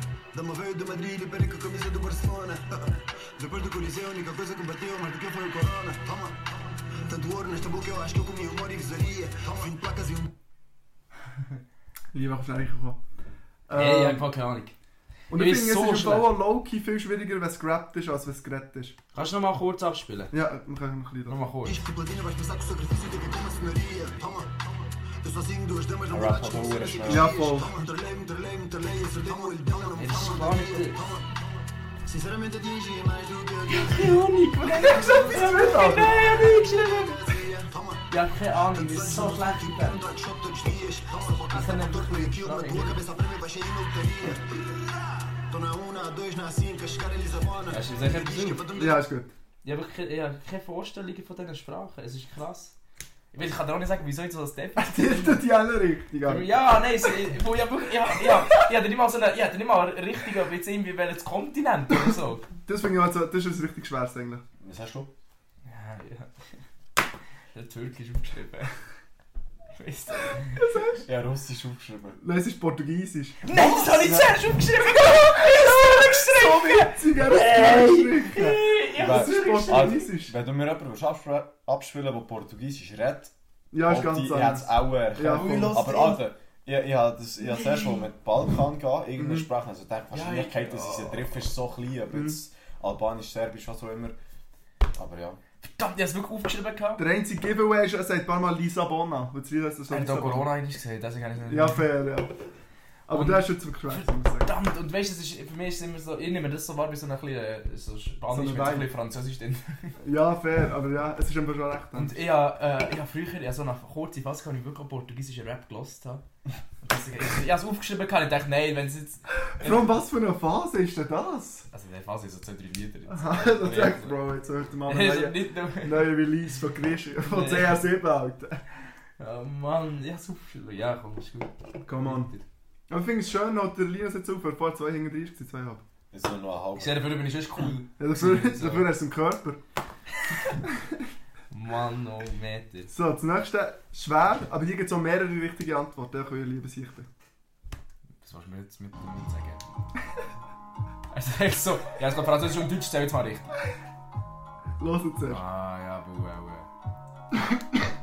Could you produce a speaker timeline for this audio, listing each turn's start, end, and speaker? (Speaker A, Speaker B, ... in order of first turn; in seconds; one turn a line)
Speaker A: 0.3-10.3
Speaker B: 12.1-13.0
Speaker B: 13.7-14.3
Speaker C: 13.7-14.7
Speaker B: 15.3-19.0
Speaker C: 15.3-16.4
Speaker C: 19.1-20.3
Speaker B: 20.3-21.4
Speaker C: 21.3-21.8
Speaker A: 21.6-31.5
Speaker D: 26.1-27.4
Speaker B: 27.1-27.7
Speaker C: 30.0-31.0
Speaker A: 32.1-38.1
Speaker C: 33.7-37.2
Speaker B: 35.2-36.9
Speaker C: 38.1-40.1
Speaker A: 38.6-44.6
Speaker C: 41.5-43.0
Speaker A: 45.5-49.0
Speaker C: 47.7-48.6
Speaker B: 48.8-49.3
Speaker C: 49.6-52.8
Speaker C: 53.3-55.4
Speaker B: 54.8-56.6
Speaker C: 56.2-62.5
Speaker B: 62.7-64.4
Speaker D: 64.6-65.1
Speaker C: 65.7-66.3
Speaker C: 67.5-68.8
Speaker C: 69.8-70.6
Speaker B: 70.5-71.0
Speaker D: 71.0-72.2
Speaker B: 72.2-73.5
Speaker C: 73.4-80.1
Speaker D: 73.6-74.2
Speaker B: 75.5-80.3
Speaker D: 79.0-94.2
Speaker B: 83.7-85.8
Speaker C: 85.3-86.2
Speaker B: 89.2-89.5
Speaker C: 90.1-91.4
Speaker B: 92.1-92.4
Speaker D: 94.9-95.4
Speaker C: 95.6-97.0
Speaker B: 97.0-100.5
Speaker C: 99.9-101.9
Speaker B: 101.5-102.4
Speaker B: 103.1-104.5
Speaker C: 103.1-110.0
Speaker B: 108.3-108.9
Speaker B: 110.0-112.2
Speaker C: 112.0-116.2
Speaker C: 116.8-119.9
Speaker B: 119.6-121.7
Speaker C: 121.7-124.2
Speaker B: 123.1-128.6
Speaker C: 124.9-126.3
Speaker C: 127.3-127.8
Speaker C: 129.2-132.4
Speaker B: 131.8-132.3
Speaker B: 132.9-135.8
Speaker D: 136.1-137.0
Speaker C: 136.8-138.9
Speaker B: 138.0-139.6
Speaker C: 141.5-142.9
Speaker B: 142.9-147.1
Speaker C: 148.2-149.8
Speaker C: 151.1-153.5
Speaker B: 154.8-155.4
Speaker C: 155.3-156.7